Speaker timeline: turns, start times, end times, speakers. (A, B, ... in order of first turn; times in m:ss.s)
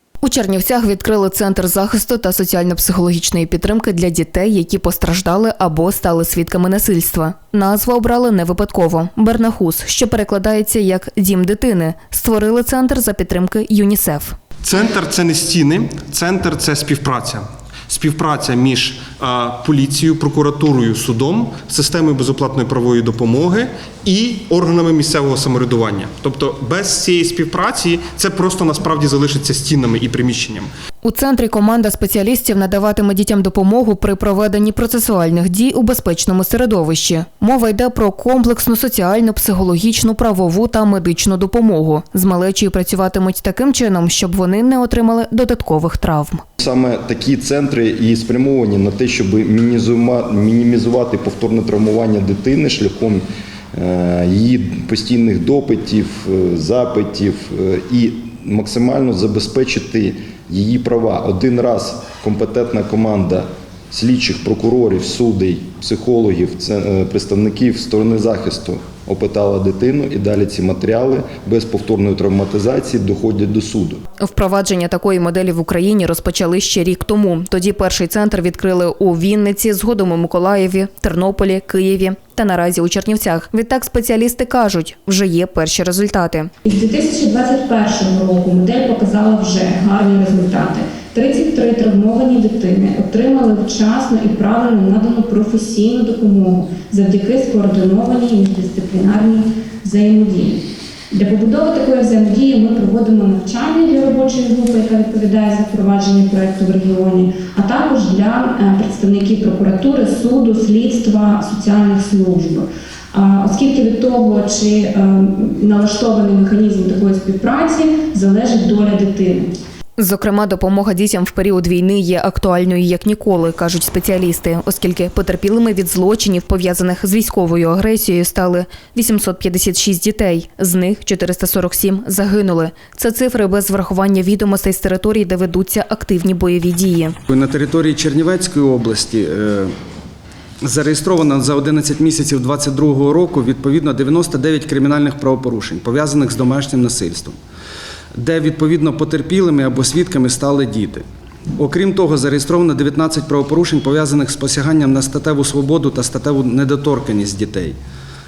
0:00.2-0:14.4 A
0:14.6-0:30.7 B
0:31.0-0:46.4 A
0:46.6-1:14.0 C
1:14.2-1:26.5 A
1:26.7-1:40.6 D
1:41.1-1:59.5 D
2:00.0-2:17.2 A
2:17.3-2:19.7 E
2:20.6-2:27.4 E
2:28.2-2:31.0 E
2:31.6-2:37.8 E